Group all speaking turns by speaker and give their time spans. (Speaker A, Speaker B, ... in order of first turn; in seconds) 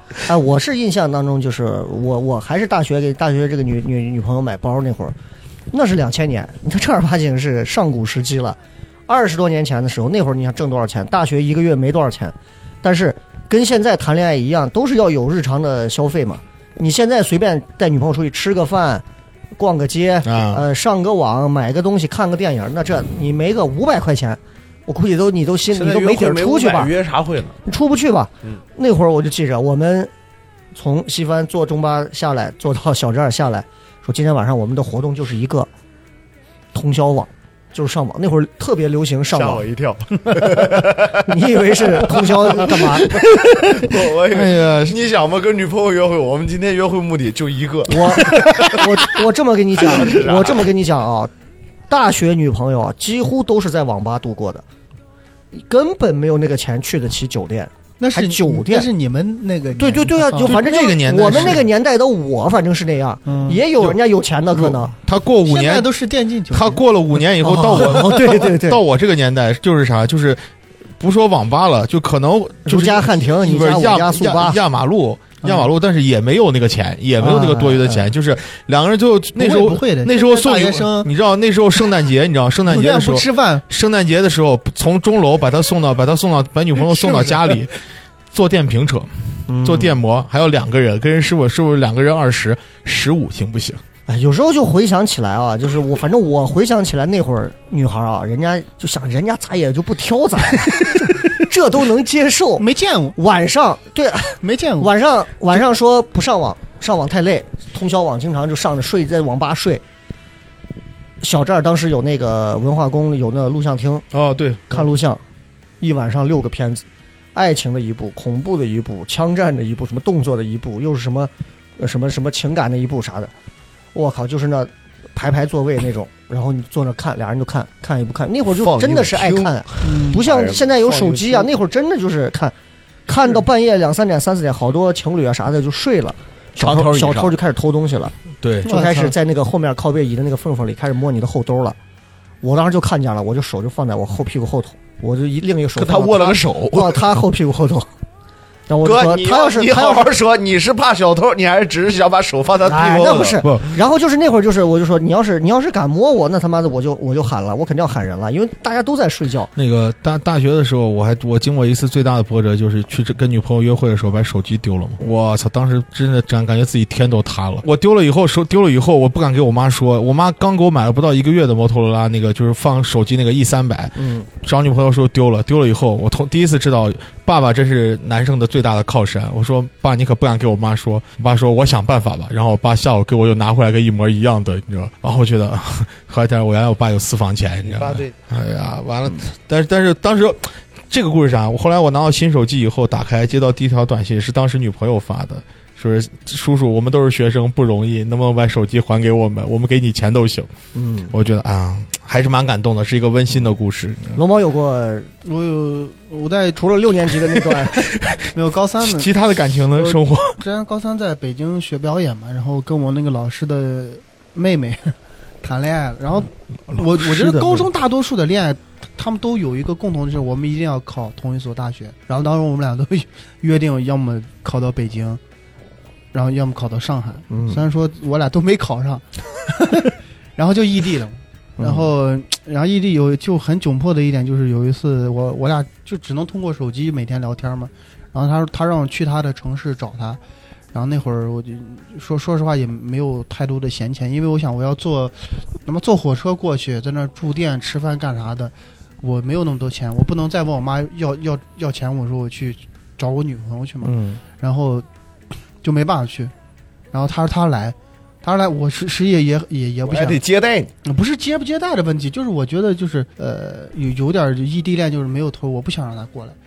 Speaker A: 0.3-5.1, 5.7-8.6, 9.1-19.0, 19.6-26.9, 27.6-30.1, 30.7-35.7, 36.7-39.6, 41.1-43.2, 47.9-51.3, 51.9-54.6, 55.5-58.9, 59.8-64.9, 67.4-68.8, 72.6-74.6, 77.2-78.1, 89.5-90.0, 94.1-109.8, 111.2-114.0, 114.7-115.2, 115.8-116.8, 117.3-123.3, 123.9-132.5, 133.1-141.8, 142.4-147.9, 148.7-150.1, 152.6-159.5, 173.9-174.3, 200.7-201.1, 204.2-205.1, 206.6-207.8, 227.3-227.6, 231.6-231.9, 253.8-254.2
Speaker B: 20.2-20.6, 43.5-45.0, 60.3-61.7, 64.6-65.9, 66.5-70.5, 71.0-87.7, 88.3-93.8, 114.1-114.9, 138.4-138.7, 153.4-153.7, 159.6-200.5, 201.1-204.2, 207.8-208.2, 208.8-210.4, 216.7-217.7
Speaker C: 25.7-27.6, 39.3-41.3, 41.9-48.9, 49.8-50.7, 128.5-131.5, 136.6-137.3, 145.8-147.1, 148.8-153.4, 187.6-188.1, 259.9-260.7
Speaker D: 58.0-60.5, 63.2-64.0, 65.5-66.8, 79.3-81.1, 82.7-83.6, 102.6-103.2, 104.4-104.9, 129.8-130.2, 138.6-139.1, 205.2-206.6, 208.3-209.1, 209.8-225.2, 226.1-240.2, 240.7-254.8, 255.6-256.3, 256.9-260.2, 260.8-266.4